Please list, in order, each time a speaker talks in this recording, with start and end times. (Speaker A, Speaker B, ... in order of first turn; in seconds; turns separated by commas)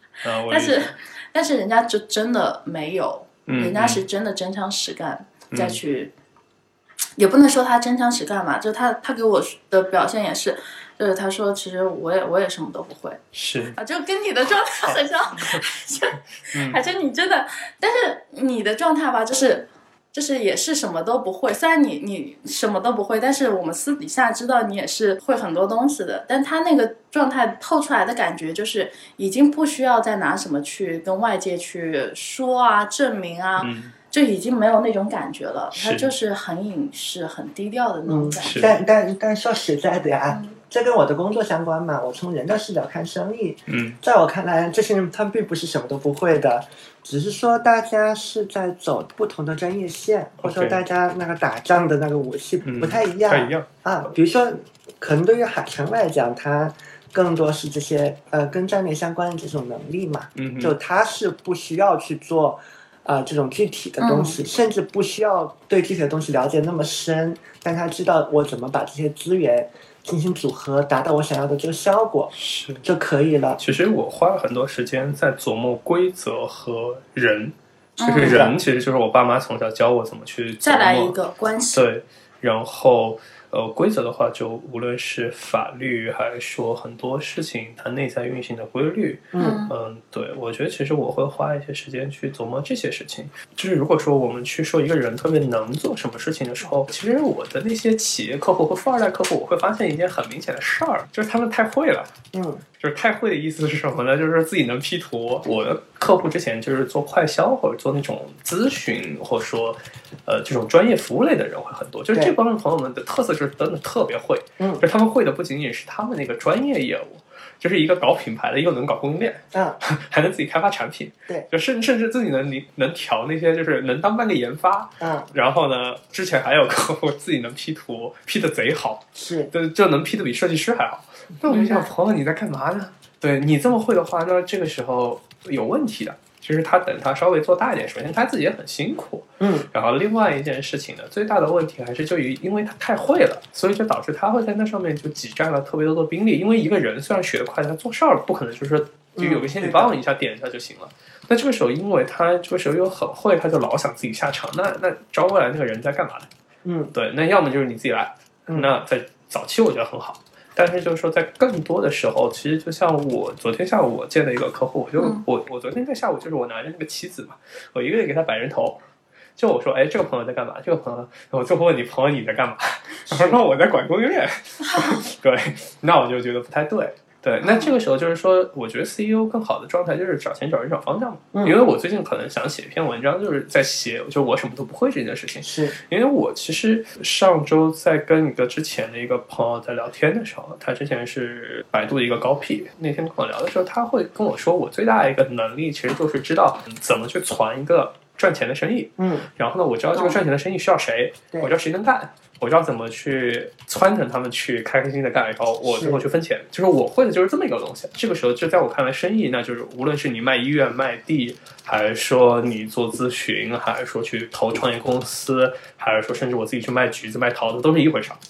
Speaker A: 0.2-1.0, Speaker B: 0.5-6.1, Speaker A: 3.5-4.0, Speaker A: 5.5-5.8, Speaker B: 7.2-13.2, Speaker A: 13.3-13.8, Speaker B: 13.8-38.8, Speaker A: 14.8-15.6, Speaker A: 16.5-16.8, Speaker A: 33.6-33.9, Speaker A: 35.7-36.1, Speaker C: 38.1-73.6, Speaker A: 38.4-38.7, Speaker B: 40.3-40.6, Speaker A: 43.7-44.0, Speaker A: 50.4-50.8, Speaker A: 52.6-53.7, Speaker A: 60.4-60.7, Speaker B: 64.0-64.4, Speaker A: 72.4-72.8, Speaker A: 73.6-81.2, Speaker B: 78.0-78.5, Speaker C: 78.2-78.6, Speaker B: 80.6-81.8, Speaker A: 81.7-102.1, Speaker C: 89.3-89.6, Speaker B: 89.4-89.7, Speaker C: 102.3-102.6, Speaker A: 102.8-156.3, Speaker C: 114.6-114.8, Speaker C: 119.5-119.8, Speaker C: 125.0-125.3, Speaker C: 129.1-129.5, Speaker C: 131.5-131.8, Speaker B: 131.5-131.9, Speaker C: 139.4-139.7, Speaker C: 149.2-150.0, Speaker C: 156.6-156.9, Speaker A: 156.9-168.8, Speaker A: 169.4-218.2, Speaker C: 173.1-173.4, Speaker B: 174.6-175.0, Speaker C: 177.4-177.7, Speaker C: 181.3-181.6, Speaker C: 185.4-185.8, Speaker C: 199.0-199.3, Speaker C: 205.6-206.0